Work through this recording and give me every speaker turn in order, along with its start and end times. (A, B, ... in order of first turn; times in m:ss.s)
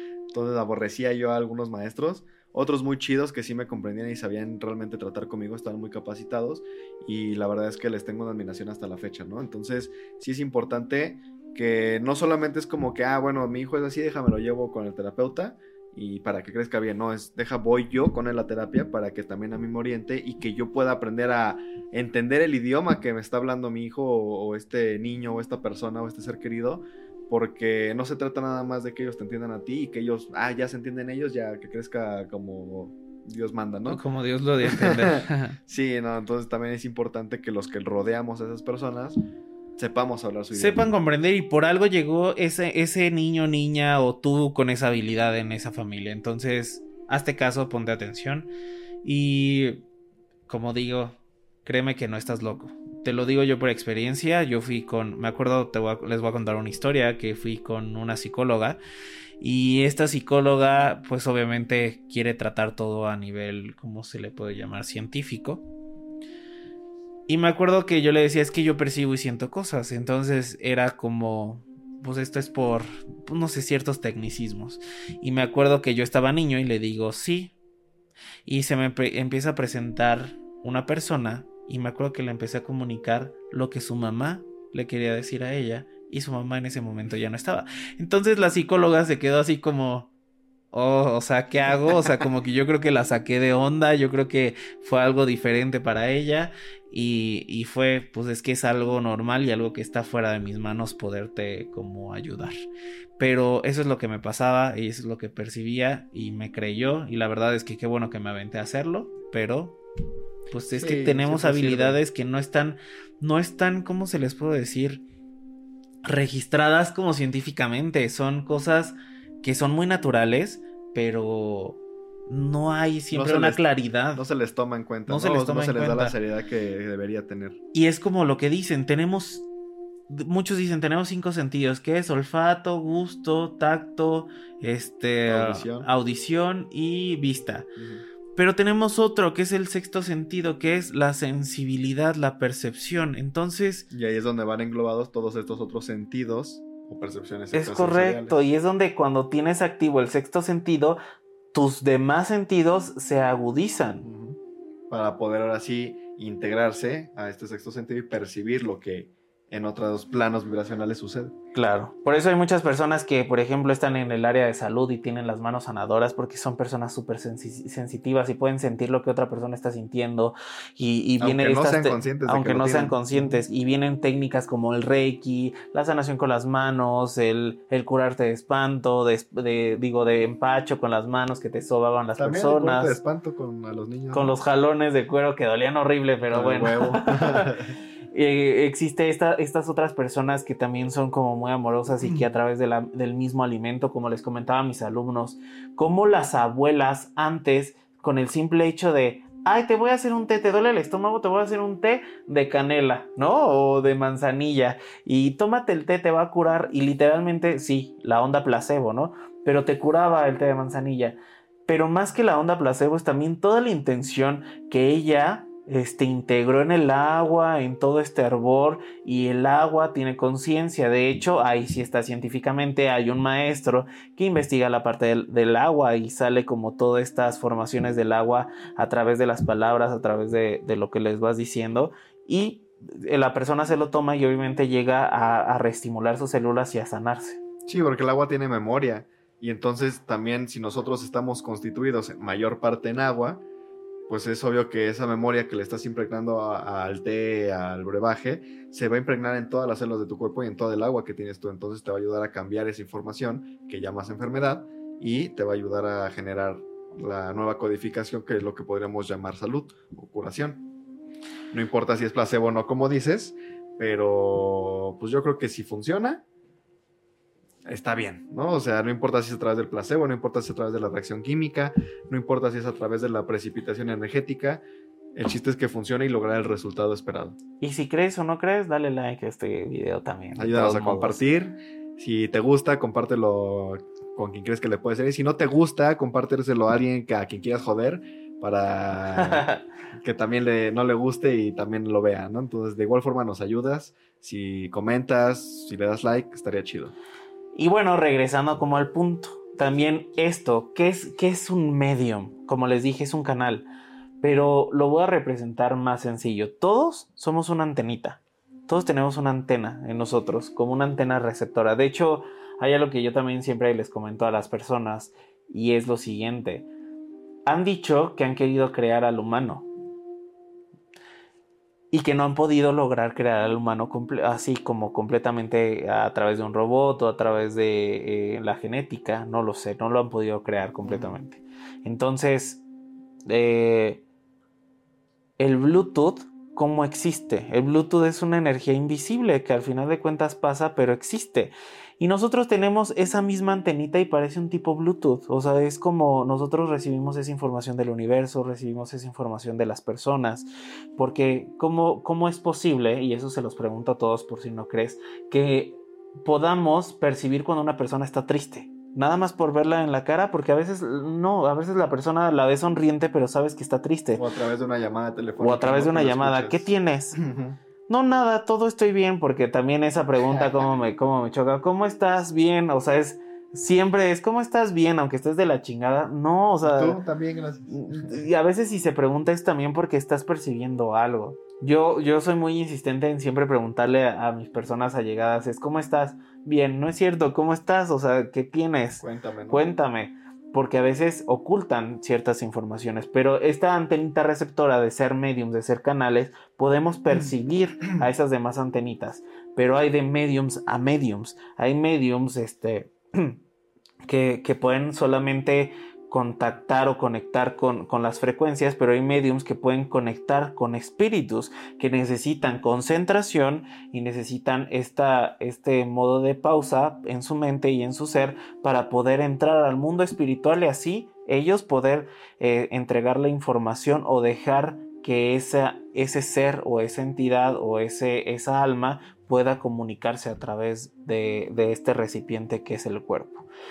0:00.3-0:34.0 A
0:33.9-0:35.6 B
0:34.6-0:39.2 A
0:39.8-0:40.8 A
0:40.5-0:48.5 B
0:49.0-0:49.8 B
0:50.5-0:58.8 B
0:59.4-1:05.6 B
1:07.3-1:17.5 B
1:18.4-1:30.1 B
1:30.7-1:42.6 B
1:43.2-1:49.8 B
1:50.5-1:55.0 B
1:50.7-1:52.0 A
1:56.0-2:04.2 B
2:03.1-2:03.6 A
2:04.1-2:07.6 A
2:05.1-2:06.2 B
2:07.7-2:09.4 B
2:10.1-2:17.7 B
2:15.3-2:15.9 A
2:17.8-2:18.0 A
2:18.4-2:23.9 B
2:23.9-2:28.4 A
2:27.5-2:31.0 B
2:31.5-2:34.0 B
2:34.0-2:34.4 A
2:34.9-2:41.4 A
2:41.5-3:03.0 B
2:51.2-2:53.4 A
3:02.2-3:04.3 A
3:04.1-3:07.5 B
3:06.3-3:07.7 A
3:08.1-3:57.4 B
3:57.7-4:03.4 A
4:04.1-4:20.6 A
4:21.5-4:26.2 A
4:27.6-4:34.6 A
4:35.1-4:37.4 A
4:37.6-4:41.2 B
4:40.4-4:56.9 A
4:49.2-4:49.6 B
4:57.5-5:03.7 B
5:04.2-5:16.7 B
5:17.4-5:19.7 B
5:21.9-5:32.6 B
5:30.8-5:31.2 A
5:33.3-5:34.0 B
5:35.4-6:04.2 B
6:04.2-6:07.6 A
6:05.4-6:07.2 B
6:07.9-6:17.0 B
6:10.3-6:10.7 A
6:16.6-6:18.2 A
6:17.7-6:43.4 B
6:29.0-6:29.6 A
6:44.1-7:13.4 B